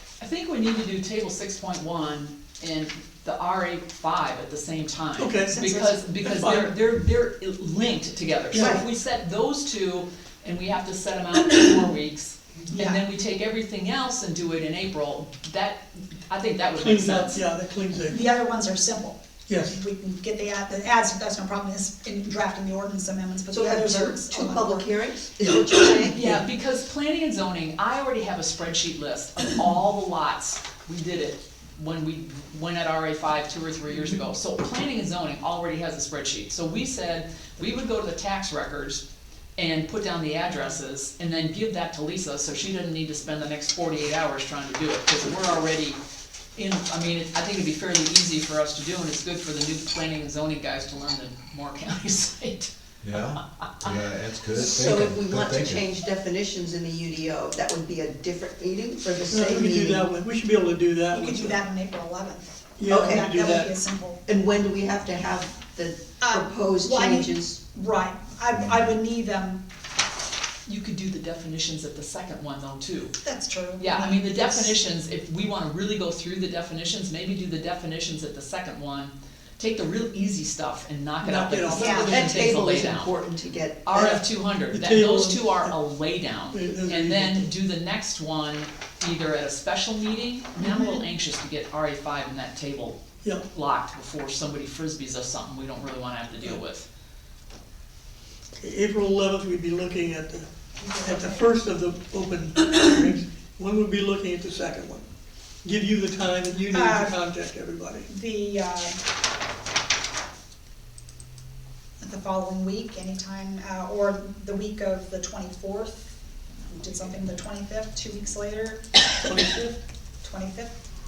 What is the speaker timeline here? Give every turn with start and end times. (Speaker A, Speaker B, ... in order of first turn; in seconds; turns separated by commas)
Speaker A: 0.2-17.4, Speaker B: 5.2-5.6, Speaker C: 5.5-6.0, Speaker B: 6.2-6.8, Speaker B: 8.5-8.8, Speaker C: 8.6-8.8, Speaker C: 12.7-13.0, Speaker B: 16.8-18.2, Speaker C: 18.1-24.9, Speaker B: 19.5-19.8, Speaker D: 23.5-26.4, Speaker A: 26.0-39.0, Speaker A: 39.6-46.0, Speaker A: 46.6-52.7, Speaker E: 53.0-55.8, Speaker D: 54.6-60.1, Speaker B: 59.3-61.6, Speaker C: 61.1-64.2, Speaker B: 62.8-63.7, Speaker D: 62.9-63.3, Speaker D: 64.3-67.6, Speaker C: 66.2-69.6, Speaker E: 68.5-68.9, Speaker A: 70.7-73.2, Speaker C: 73.2-74.8, Speaker A: 73.8-83.1, Speaker B: 81.2-82.2, Speaker C: 81.7-82.3, Speaker D: 82.1-84.2, Speaker A: 83.8-93.0, Speaker B: 83.9-85.8, Speaker B: 86.5-87.5, Speaker A: 93.5-96.9, Speaker B: 98.6-100.5, Speaker C: 100.8-101.5, Speaker B: 101.0-105.1, Speaker B: 105.6-108.1, Speaker C: 106.7-107.2, Speaker C: 108.1-109.0, Speaker C: 112.0-116.1, Speaker C: 116.7-119.0, Speaker B: 119.2-119.8, Speaker C: 120.2-120.7